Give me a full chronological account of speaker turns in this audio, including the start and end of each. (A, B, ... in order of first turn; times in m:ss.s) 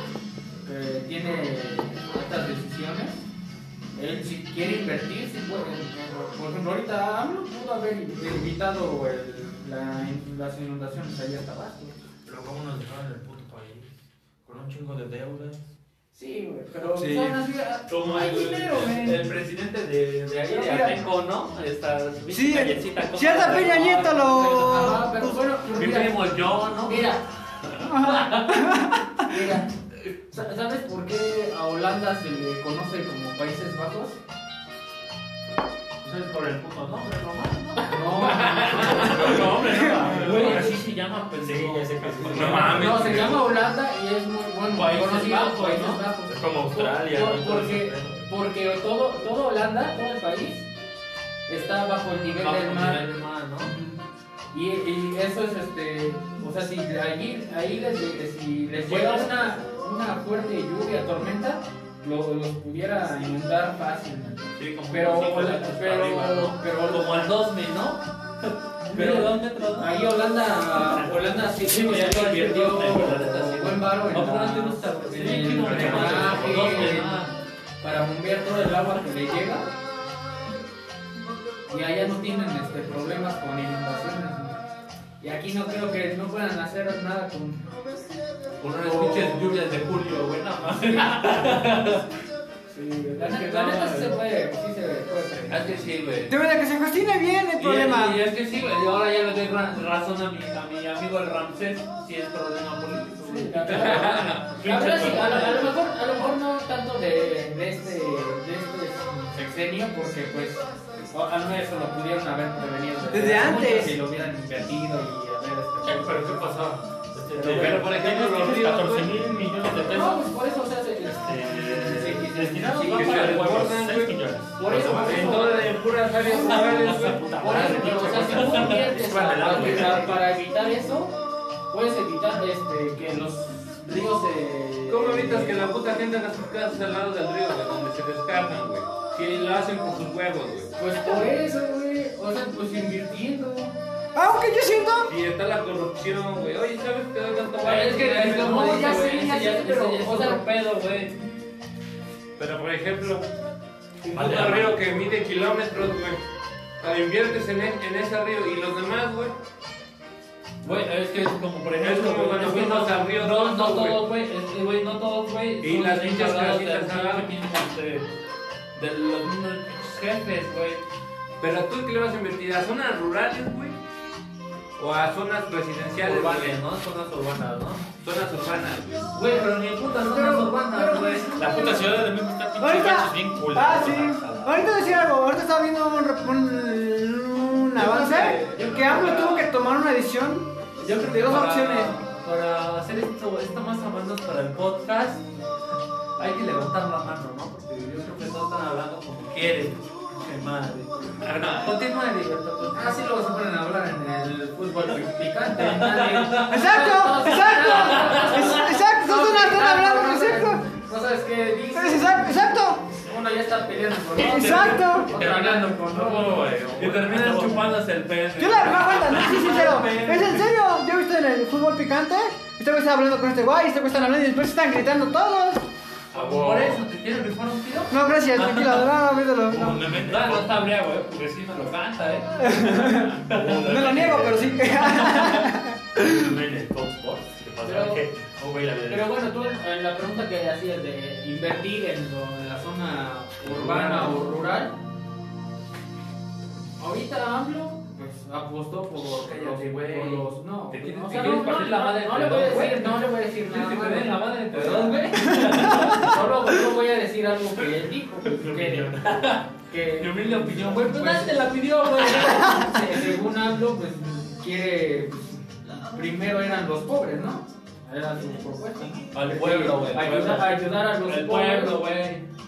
0:00.6-0:03.2 A
0:03.9-0:12.0 A
0:12.2-0:15.6 B
0:16.1-0:19.2 A
0:16.9-0:17.4 C
0:17.9-0:25.0 D
0:20.5-0:21.0 A
0:22.3-0:25.4 C
0:24.6-0:27.2 A
0:25.8-0:27.1 D
0:27.6-0:28.7 D
0:27.8-0:29.4 C
0:29.2-0:29.7 A
0:30.3-0:34.2 A
0:36.0-0:43.0 D
0:37.9-0:39.4 A
0:38.1-0:40.8 E
0:38.8-0:40.8 B
0:41.4-0:43.4 B
0:42.2-0:43.4 E
0:42.7-0:50.7 A
0:44.7-0:46.0 D
0:46.3-0:48.2 B
0:51.5-0:53.0 A
0:52.3-0:53.7 D
0:54.5-1:07.3 A
0:58.8-0:59.6 D
1:04.6-1:09.9 D
1:08.9-1:17.2 A
1:10.8-1:17.4 D
1:15.6-1:17.0 B
1:17.8-1:19.7 A
1:21.7-1:24.6 A
1:25.2-1:27.6 A
1:28.6-1:32.1 D
1:28.8-1:29.5 A
1:32.7-1:35.8 A
1:33.2-1:34.2 D
1:35.5-1:36.3 D
1:36.3-1:38.2 C
1:37.6-1:45.7 D
1:43.2-1:56.4 A
1:43.6-1:44.6 E
1:53.1-1:53.9 C
1:55.8-2:00.3 B
1:57.3-1:57.8 A
1:57.5-1:59.1 E
1:59.8-2:03.5 A
2:01.0-2:05.6 B
2:02.5-2:03.4 D
2:02.9-2:04.2 E
2:04.6-2:05.7 A
2:05.0-2:07.2 E
2:06.2-2:09.9 D
2:06.6-2:10.2 B
2:07.3-2:11.1 A
2:11.7-2:15.7 A
2:14.9-2:20.7 E
2:20.8-2:23.7 A
2:24.1-2:25.1 C
2:25.1-2:28.7 E
2:27.6-2:30.4 A
2:27.7-2:31.2 D
2:32.4-2:33.2 E
2:34.0-2:36.2 E
2:34.1-2:35.0 B
2:36.8-2:39.4 E
2:40.6-2:48.1 D
2:41.8-2:44.0 E
2:45.6-2:47.3 E
2:48.8-2:50.8 D
2:51.4-2:53.8 E
2:54.8-2:56.6 E
2:56.0-2:57.8 D
2:58.0-2:59.1 E
2:59.1-3:01.4 D
3:00.0-3:01.9 C
3:01.3-3:04.7 B
3:02.6-3:11.9 C
3:07.7-3:09.5 D
3:10.8-3:15.3 D
3:16.2-3:23.0 D
3:21.2-3:21.7 E
3:22.7-3:36.4 A
3:25.6-3:26.7 D
3:26.4-3:30.6 C
3:27.5-3:28.6 D
3:31.7-3:32.8 C
3:34.2-3:35.1 C
3:34.2-3:35.9 D
3:35.1-3:37.7 B
3:36.8-3:40.4 D
3:38.4-3:45.6 C
3:46.1-3:48.9 D
3:46.1-3:46.8 B
3:47.9-3:49.9 C
3:49.5-3:50.6 B
3:49.9-3:55.5 D
3:52.4-3:56.2 C
3:52.9-3:54.8 B
3:56.0-3:59.2 B
3:57.6-3:58.0 A
3:58.9-4:04.7 A
4:03.4-4:04.1 B
4:06.8-4:32.2 A
4:09.2-4:16.3 D
4:11.1-4:11.4 E
4:18.3-4:19.2 B
4:19.0-4:22.9 D
4:29.1-4:32.2 D